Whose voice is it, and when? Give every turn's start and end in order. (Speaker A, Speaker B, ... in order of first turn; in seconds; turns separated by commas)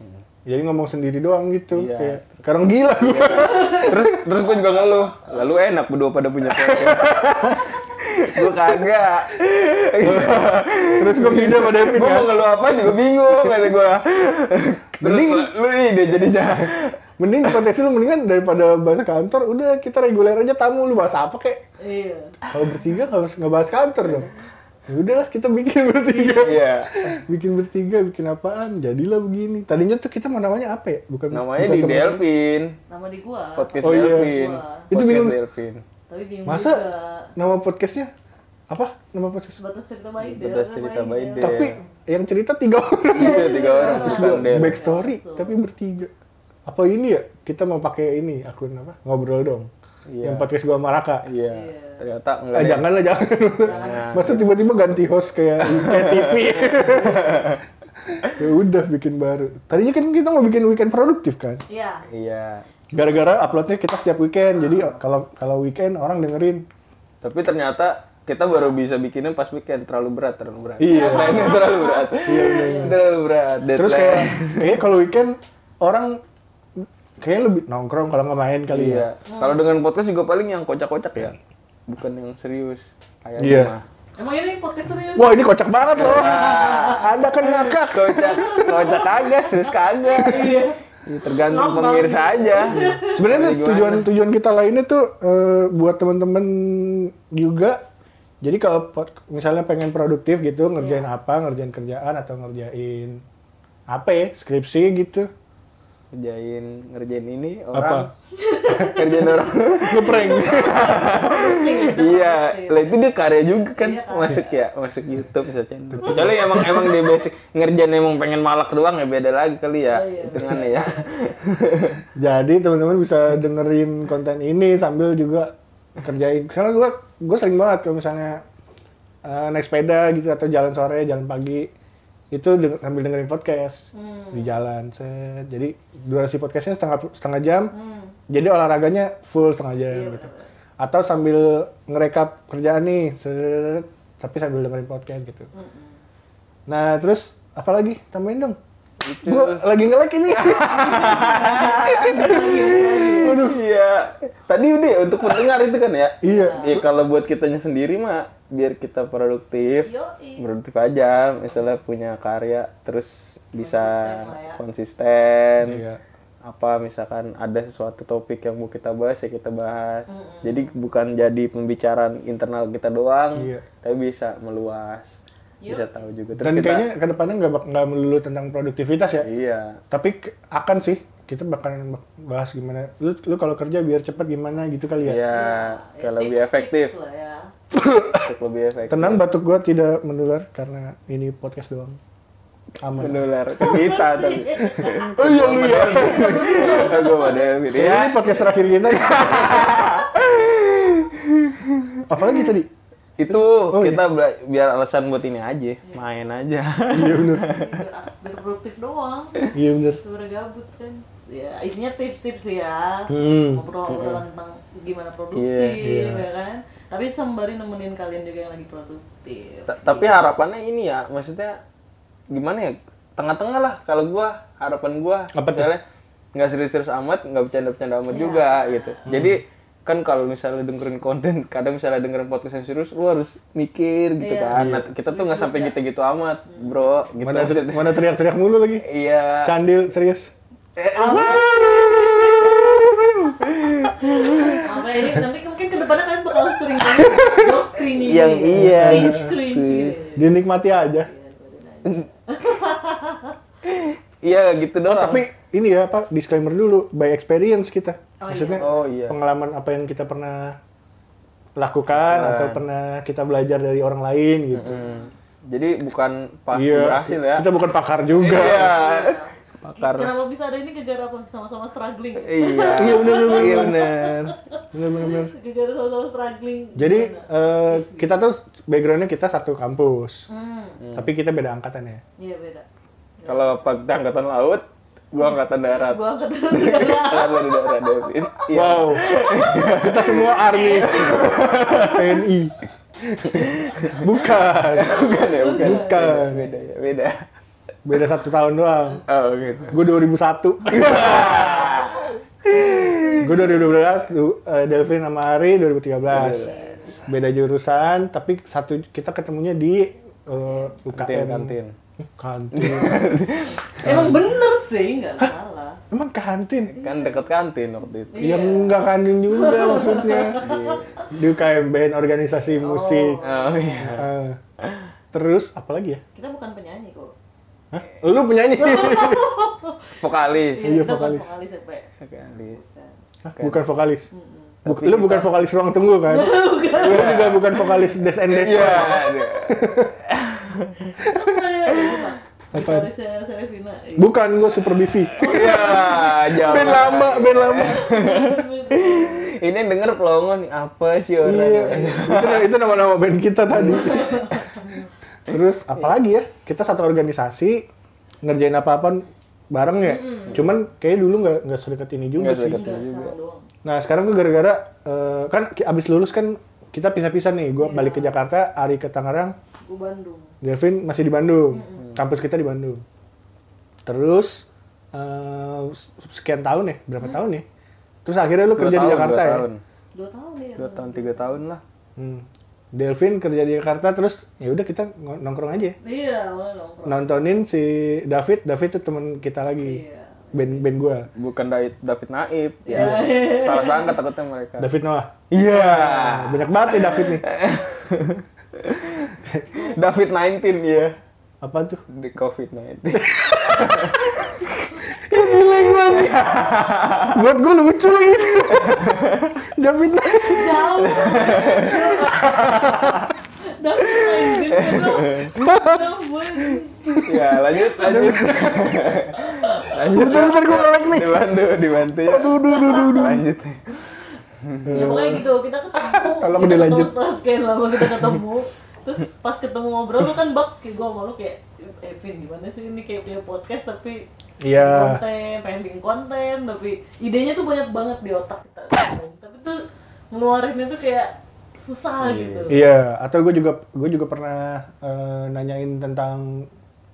Speaker A: 0.5-4.2, Speaker B: 1.7-2.4, Speaker B: 2.9-17.6, Speaker A: 6.5-7.6, Speaker A: 10.0-10.4, Speaker A: 11.0-12.3, Speaker A: 13.4-13.7, Speaker A: 15.0-15.5, Speaker A: 17.2-21.6, Speaker C: 21.8-22.4, Speaker A: 22.5-24.3, Speaker A: 24.9-32.2, Speaker C: 26.1-26.5, Speaker B: 26.3-26.9, Speaker B: 31.3-32.7, Speaker C: 32.9-34.9, Speaker B: 33.5-35.8, Speaker A: 33.8-34.3, Speaker A: 34.9-35.4, Speaker C: 36.1-37.3, Speaker A: 36.4-36.8, Speaker A: 37.4-38.1, Speaker A: 38.7-39.6, Speaker C: 39.6-41.5, Speaker B: 40.2-41.8, Speaker A: 41.4-46.1, Speaker B: 43.1-44.8, Speaker C: 43.1-45.5, Speaker A: 46.6-49.7, Speaker B: 50.1-50.5, Speaker A: 50.2-51.2, Speaker B: 51.2-52.9, Speaker C: 51.5-52.0, Speaker A: 52.5-57.5, Speaker B: 53.6-54.5, Speaker C: 53.6-54.4, Speaker B: 55.6-57.6, Speaker A: 58.2-61.6, Speaker C: 61.7-62.0, Speaker B: 62.1-62.6, Speaker A: 62.9-66.6, Speaker B: 67.2-74.8, Speaker A: 70.8-71.6, Speaker C: 70.9-73.0, Speaker A: 72.2-73.0, Speaker A: 73.7-76.2, Speaker A: 76.8-79.0, Speaker B: 78.7-81.4, Speaker C: 79.3-79.7, Speaker B: 81.9-83.8, Speaker A: 83.4-83.7, Speaker C: 84.2-87.7, Speaker A: 85.2-89.0, Speaker B: 85.9-87.1, Speaker B: 87.7-94.1, Speaker C: 88.2-93.2, Speaker A: 90.2-90.5, Speaker A: 92.7-97.8, Speaker A: 98.4-103.2, Speaker C: 100.8-101.1, Speaker A: 103.9-105.3, Speaker B: 106.1-108.1, Speaker A: 107.7-108.1, Speaker C: 108.3-114.6, Speaker A: 108.7-109.0, Speaker B: 108.7-122.0, Speaker A: 109.7-110.9, Speaker A: 115.9-117.2, Speaker C: 119.9-121.4, Speaker A: 122.1-128.4, Speaker A: 129.2-131.7, Speaker A: 132.3-137.7, Speaker C: 133.9-134.6, Speaker C: 137.7-138.1, Speaker A: 138.3-140.3, Speaker C: 139.9-140.5, Speaker A: 140.8-145.5, Speaker C: 145.5-146.0, Speaker A: 146.7-148.6, Speaker B: 149.0-149.7, Speaker A: 149.2-151.3, Speaker B: 150.3-165.8, Speaker C: 150.7-153.4, Speaker A: 152.1-153.6, Speaker A: 156.2-156.8, Speaker C: 156.2-156.8, Speaker C: 159.8-160.4, Speaker C: 163.6-164.6, Speaker A: 165.6-166.0, Speaker B: 166.4-175.1, Speaker C: 170.1-170.7, Speaker A: 173.3-173.7, Speaker C: 175.6-176.0, Speaker B: 175.7-176.9, Speaker A: 176.4-179.3, Speaker B: 179.2-179.8, Speaker A: 179.9-185.4, Speaker B: 185.0-186.9, Speaker C: 185.2-187.5, Speaker A: 187.7-188.3, Speaker B: 188.2-189.2, Speaker A: 188.9-192.0, Speaker A: 192.8-194.1, Speaker B: 192.9-202.4, Speaker C: 193.8-195.1, Speaker A: 194.6-196.9, Speaker C: 195.7-197.6, Speaker A: 197.7-199.8, Speaker A: 202.1-202.7, Speaker B: 203.2-207.8, Speaker A: 203.7-204.0, Speaker A: 206.9-207.4, Speaker C: 207.4-209.5, Speaker A: 209.5-210.0, Speaker C: 210.0-220.3, Speaker A: 213.1-213.6, Speaker B: 213.9-214.2, Speaker B: 215.3-215.8, Speaker A: 215.8-216.2, Speaker B: 219.7-221.6, Speaker B: 222.3-225.8, Speaker A: 225.3-225.7, Speaker B: 226.3-238.1, Speaker C: 228.1-229.1, Speaker A: 229.1-229.4, Speaker C: 234.2-235.8, Speaker A: 234.5-234.9, Speaker C: 236.5-236.8, Speaker A: 237.2-238.8, Speaker B: 238.8-239.5, Speaker A: 239.4-240.3, Speaker B: 240.8-244.6, Speaker C: 240.9-242.7, Speaker C: 244.0-250.4, Speaker A: 247.0-247.4, Speaker B: 247.7-249.9, Speaker A: 248.5-249.4, Speaker A: 250.2-251.1, Speaker C: 250.9-253.3, Speaker B: 253.6-255.2, Speaker A: 254.8-260.6, Speaker C: 258.2-258.8, Speaker B: 258.6-259.2, Speaker A: 261.6-264.9, Speaker B: 261.9-262.6, Speaker B: 264.5-267.5, Speaker C: 264.7-265.1, Speaker A: 266.5-268.8, Speaker B: 268.1-270.1, Speaker C: 268.5-278.1, Speaker B: 272.2-274.3, Speaker A: 272.7-273.8, Speaker A: 274.7-275.3, Speaker A: 276.8-280.2, Speaker C: 280.3-280.8, Speaker B: 280.8-281.1, Speaker A: 280.9-282.0, Speaker C: 282.2-282.6, Speaker C: 283.2-283.6, Speaker B: 283.2-292.2, Speaker C: 285.2-287.6, Speaker A: 288.5-296.5, Speaker C: 290.5-292.0, Speaker B: 293.4-293.9, Speaker B: 294.7-297.1, Speaker C: 295.2-296.3, Speaker A: 297.8-299.0, Speaker B: 299.1-299.8, Speaker A: 299.7-301.8, Speaker B: 300.6-303.8, Speaker C: 302.7-303.1, Speaker A: 303.2-306.5, Speaker B: 306.1-307.0, Speaker C: 306.2-307.1, Speaker A: 307.0-313.0, Speaker C: 310.5-310.7, Speaker B: 310.9-311.7, Speaker B: 312.5-314.1, Speaker C: 313.8-315.8, Speaker A: 313.8-314.2, Speaker A: 315.9-316.8, Speaker B: 316.7-318.2, Speaker C: 316.8-317.4, Speaker C: 318.1-321.0, Speaker A: 318.2-320.4, Speaker B: 320.3-320.9, Speaker A: 321.1-323.2, Speaker C: 322.6-324.0, Speaker B: 323.2-324.1, Speaker A: 323.9-324.4, Speaker A: 325.1-326.0, Speaker C: 326.1-327.1, Speaker A: 327.7-329.4, Speaker C: 328.6-332.9, Speaker B: 330.0-330.6, Speaker A: 330.6-331.3, Speaker B: 332.0-332.6, Speaker A: 333.2-334.1, Speaker B: 333.4-333.7, Speaker C: 334.1-334.6, Speaker A: 334.6-339.9, Speaker B: 334.6-335.3, Speaker C: 336.1-337.2, Speaker B: 336.7-337.6, Speaker B: 338.2-340.9, Speaker C: 340.9-344.2, Speaker B: 341.8-342.1, Speaker A: 342.5-342.9, Speaker A: 344.0-345.6, Speaker C: 345.1-349.3, Speaker B: 345.2-352.5, Speaker A: 346.3-347.8, Speaker A: 351.2-354.3, Speaker B: 353.5-354.4, Speaker C: 353.8-354.7, Speaker A: 355.3-357.6, Speaker A: 358.2-362.7, Speaker C: 359.8-360.4, Speaker B: 362.1-363.1, Speaker C: 362.5-363.4, Speaker A: 363.6-369.3, Speaker C: 367.6-368.2, Speaker C: 369.6-370.3, Speaker A: 370.4-372.8, Speaker C: 371.5-371.8, Speaker A: 373.9-377.4, Speaker C: 377.0-377.2, Speaker A: 378.0-379.5, Speaker B: 378.5-379.6, Speaker C: 379.9-381.4, Speaker B: 380.6-381.6, Speaker A: 382.0-385.8, Speaker C: 385.8-387.4, Speaker A: 386.8-389.8, Speaker C: 389.6-390.8, Speaker A: 390.3-391.1, Speaker B: 391.1-394.7, Speaker C: 392.7-393.9, Speaker A: 392.7-393.1, Speaker A: 394.6-397.2, Speaker B: 395.3-400.9, Speaker A: 399.2-399.7, Speaker A: 401.4-401.8, Speaker B: 401.9-404.7, Speaker A: 402.9-404.3, Speaker A: 404.8-406.2, Speaker B: 405.8-407.2, Speaker A: 407.1-410.8, Speaker B: 408.5-409.3, Speaker B: 410.1-413.1, Speaker C: 410.1-412.5, Speaker A: 411.7-413.0, Speaker C: 413.4-416.8, Speaker B: 413.9-415.4, Speaker A: 415.3-415.9, Speaker A: 416.9-419.0, Speaker B: 417.0-423.8, Speaker C: 419.2-420.2, Speaker A: 419.8-421.4, Speaker A: 422.0-423.2, Speaker B: 424.4-424.9, Speaker A: 424.6-426.9, Speaker C: 424.7-442.6, Speaker A: 434.4-435.0, Speaker B: 442.0-442.6, Speaker A: 442.5-446.4